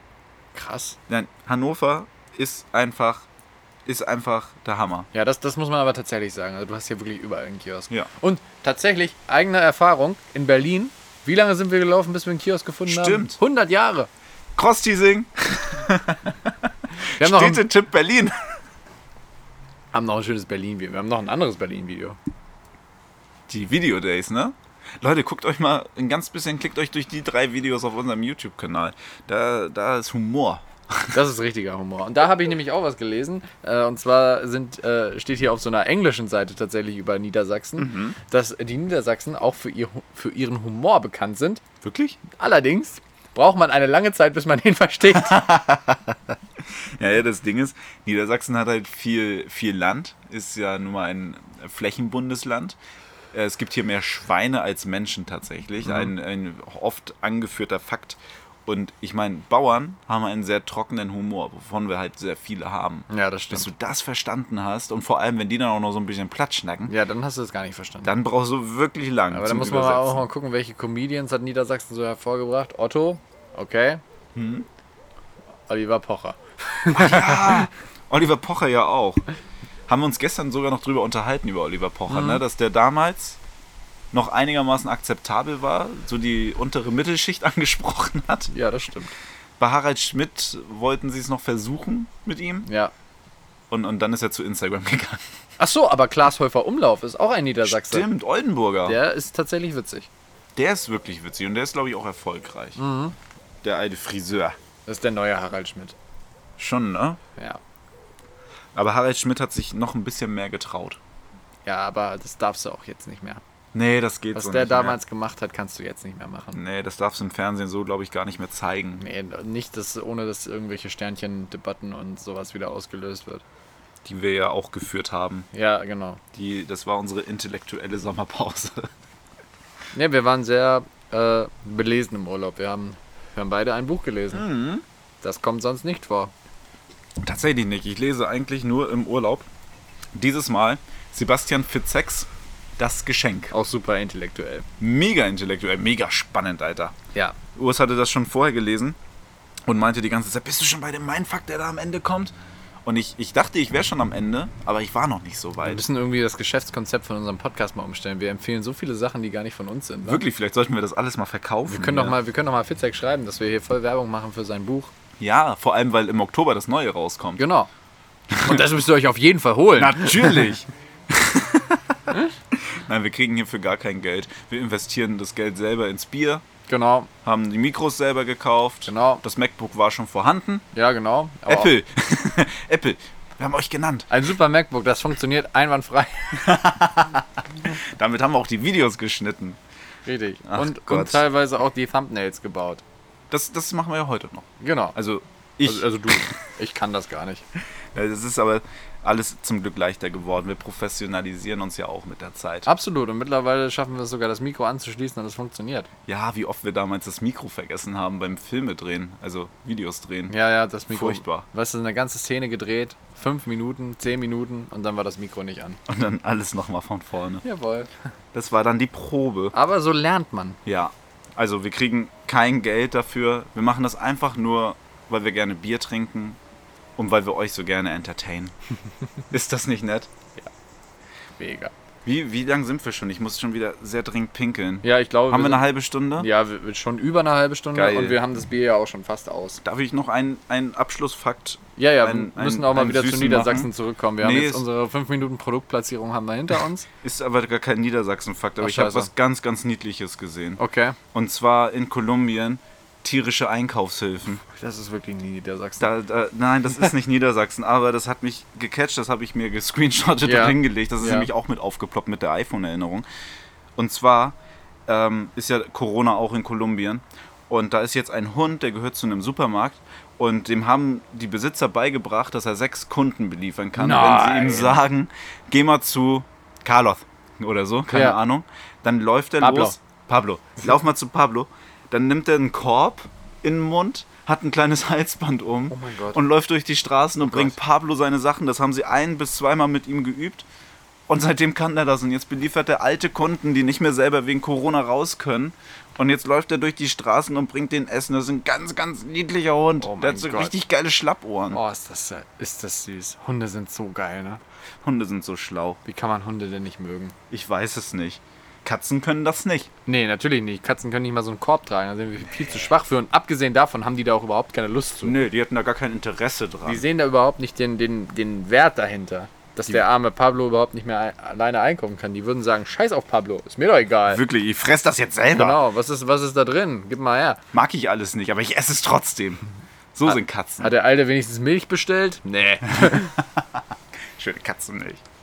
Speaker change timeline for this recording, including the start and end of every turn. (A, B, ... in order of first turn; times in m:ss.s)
0:00.5-0:01.0 A
0:01.1-0:03.3 B
0:03.9-0:05.1 B
0:05.1-0:14.1 A
0:12.9-0:13.4 B
0:14.6-0:18.4 B
0:17.2-0:17.6 A
0:19.9-0:22.2 A
0:23.5-0:31.1 B
0:31.1-0:41.6 A
0:37.8-0:38.2 B
0:41.8-0:42.2 B
0:42.3-0:45.4 A
0:45.1-0:52.8 B
0:53.3-1:06.9 B
0:55.8-0:56.1 A
1:03.1-1:03.7 A
1:06.9-1:08.1 A
1:08.0-1:10.2 B
1:09.3-1:14.0 A
1:14.4-1:14.7 B
1:15.7-1:17.7 A
1:16.9-1:19.2 B
1:19.9-1:23.4 B
1:22.1-1:22.4 A
1:24.1-1:28.5 B
1:28.5-1:29.1 A
1:29.6-1:32.7 B
1:32.7-1:32.9 A
1:33.7-1:35.2 B
1:35.6-1:38.1 A
1:37.6-1:39.0 B
1:38.9-1:40.1 A
1:40.6-1:42.8 B
1:42.8-1:43.2 A
1:43.6-1:44.6 B
1:44.9-1:46.0 A
1:46.6-1:47.2 B
1:48.8-1:51.0 B
1:51.6-1:53.4 A
1:53.7-1:55.0 B
1:54.4-1:56.6 A
1:56.6-1:59.0 B
1:59.0-2:03.4 A
2:04.0-2:05.5 B
2:05.5-2:06.2 A
2:06.3-2:08.9 B
2:09.9-2:14.5 A
2:14.3-2:14.8 B
2:15.2-2:16.3 A
2:17.2-2:19.5 B
2:20.1-2:23.5 B
2:23.5-2:24.7 A
2:24.8-2:27.0 B
2:27.6-2:29.0 B
2:29.7-2:32.3 B
2:32.8-2:35.8 B
2:35.6-2:40.2 A
2:40.1-2:42.2 B
2:41.7-2:44.9 A
2:45.2-2:47.5 B
2:47.4-2:47.7 A
2:48.3-2:48.6 B
2:48.4-2:50.5 A
2:49.7-2:52.0 B
2:52.5-2:56.4 B
2:56.7-2:57.1 A
2:57.2-3:00.7 B
2:58.9-2:59.2 A
3:00.7-3:01.7 A
3:01.5-3:04.1 B
3:04.1-3:06.6 A
3:06.3-3:09.6 B
3:10.1-3:12.8 A
3:10.4-3:11.2 B
3:13.3-3:16.2 B
3:14.6-3:15.0 A
3:15.6-3:17.4 A
3:17.9-3:22.7 B
3:22.7-3:25.9 A
3:26.1-3:30.3 B
3:30.3-3:35.8 A
3:30.9-3:31.5 B
3:35.9-3:37.4 B
3:37.4-3:38.1 A
3:38.3-3:39.5 B
3:39.5-3:40.6 A
3:40.6-3:46.4 B
3:47.0-3:48.6 B
3:49.3-3:50.1 B
3:51.4-3:51.7 A
3:52.0-3:56.3 B
3:54.8-3:59.6 A
3:57.7-3:58.2 B
3:59.6-4:04.6 B
4:01.8-4:06.9 A
4:07.0-4:10.6 B
4:08.6-4:09.1 A
4:10.6-4:11.0 A
4:11.1-4:14.4 B
4:14.4-4:15.9 A
4:15.8-4:23.0 B
4:20.2-4:21.3 A
4:23.8-4:50.5 B
4:33.8-4:34.8 A
4:37.9-4:38.2 A
4:39.4-4:39.8 A
4:45.7-4:46.2 A
4:51.1-5:01.6 B
4:59.8-5:00.5 A
5:01.5-5:04.4 A
5:04.8-5:05.8 B
5:05.8-5:07.2 A
5:07.3-5:09.7 B
5:09.9-5:15.2 A
5:15.0-5:16.8 B
5:16.6-5:24.2 A
5:24.1-5:25.6 B
5:25.3-5:27.4 A
5:27.5-5:30.7 B
5:30.1-5:33.2 A
5:32.7-5:33.6 B
5:34.2-5:35.0 B